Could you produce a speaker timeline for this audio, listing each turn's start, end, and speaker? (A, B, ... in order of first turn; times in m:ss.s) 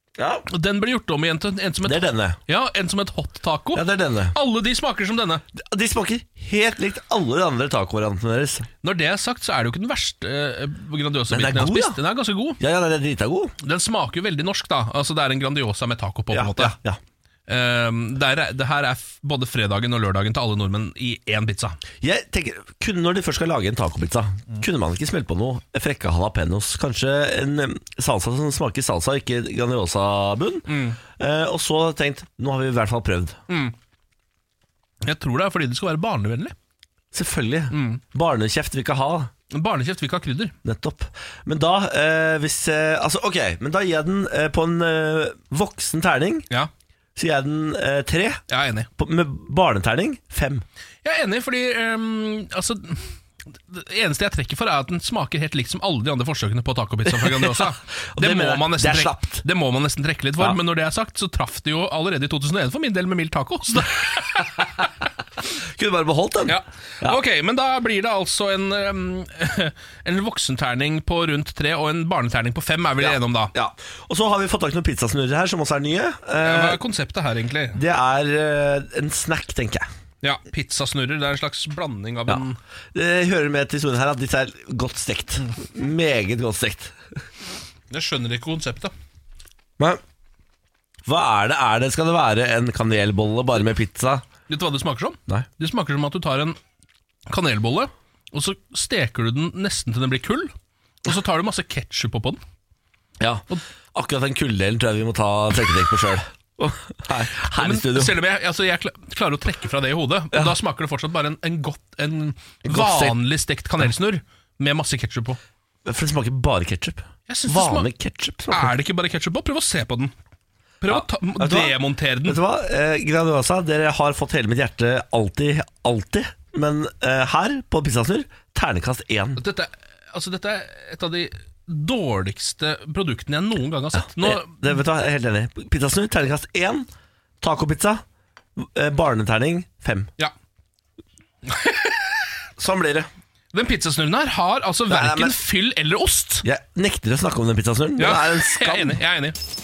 0:00.2-0:00.5 A
0:00.5-0:05.4 B
0:01.8-0:02.4 A
0:03.7-0:04.3 A
0:05.6-0:08.7 A
0:08.8-0:12.6 B
0:11.3-0:12.0 A
0:12.6-0:13.5 A
0:13.6-0:16.7 B
0:16.3-0:17.0 A
0:17.5-0:21.8 B
0:22.0-0:33.4 A
0:30.7-0:31.0 B
0:33.5-0:33.7 B
0:35.0-0:36.5 B
0:37.1-0:39.3 A
0:37.7-0:38.0 B
0:39.5-0:40.5 B
0:40.6-0:46.5 A
0:47.2-0:48.4 A
0:48.5-0:48.9 B
0:49.0-0:50.6 A
0:51.0-0:53.1 B
0:53.7-1:04.7 B
0:57.1-0:59.4 A
1:05.6-1:07.2 A
1:06.5-1:13.5 B
1:13.0-1:16.8 A
1:16.4-1:17.8 B
1:17.7-1:19.8 A
1:20.2-1:22.6 B
1:22.3-1:27.0 A
1:27.9-1:28.9 B
1:31.0-1:34.2 A
1:34.5-1:36.6 B
1:37.3-1:40.5 B
1:41.0-1:42.4 B
1:43.2-1:48.1 A
1:47.5-1:55.4 B
1:52.6-1:53.2 A
1:55.8-1:58.7 A
1:57.3-1:57.9 B
1:58.5-2:00.1 B
2:00.8-2:02.4 B
2:00.9-2:09.4 A
2:09.4-2:14.6 B
2:14.0-2:16.9 A
2:17.4-2:18.0 A
2:18.6-2:20.1 A
2:21.4-2:22.3 B
2:22.6-2:23.1 A
2:23.5-2:26.4 B
2:24.9-2:25.4 A
2:26.4-2:29.0 A
2:28.0-2:29.4 B